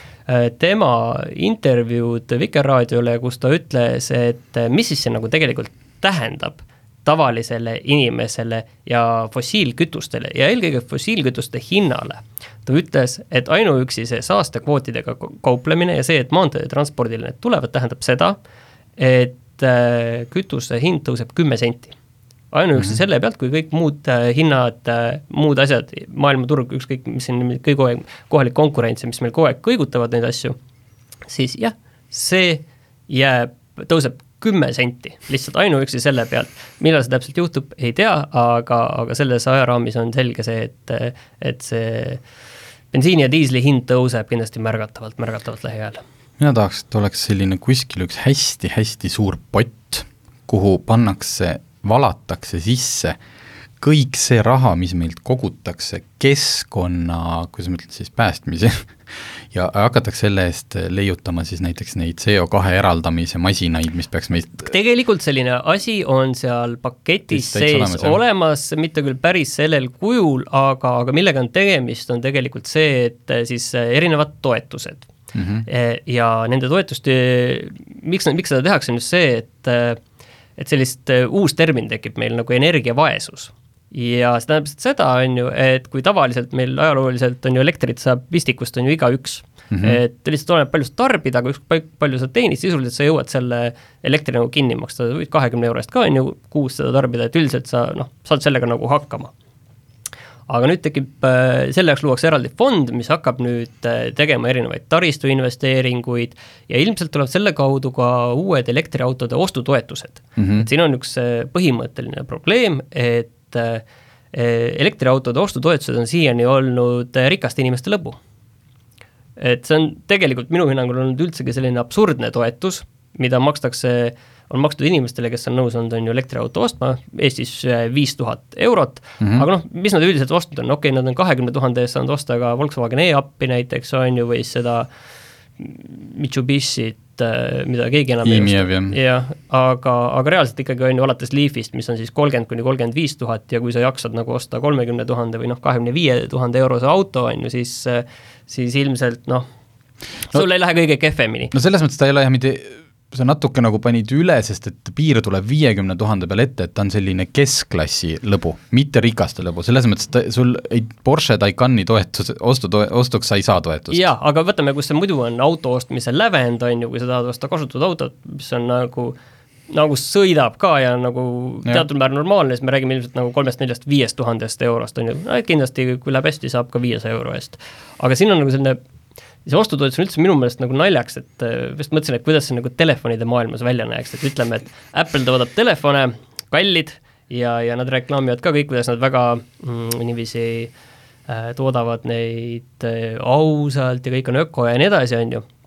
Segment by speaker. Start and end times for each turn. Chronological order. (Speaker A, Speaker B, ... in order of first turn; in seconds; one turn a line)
Speaker A: 0.3-18.4
Speaker A: 19.0-21.9
Speaker A: 22.5-30.6
Speaker A: 31.3-42.2
Speaker A: 42.9-46.0
Speaker B: 46.4-53.2
Speaker B: 53.8-64.7
Speaker A: 64.6-75.1
Speaker B: 67.3-68.2
Speaker B: 75.3-75.7
Speaker A: 75.7-80.0
Speaker A: 80.6-99.3
Speaker B: 89.7-90.0
Speaker A: 100.5-118.2
Speaker B: 110.4-110.7
Speaker A: 119.4-134.9
Speaker B: 129.2-129.5
Speaker A: 135.6-149.5
Speaker B: 138.2-139.0
Speaker A: 150.3-151.5
Speaker B: 151.5-164.0
Speaker A: 163.9-169.2
Speaker A: 169.7-178.8
Speaker A: 179.4-190.7
Speaker A: 191.3-195.4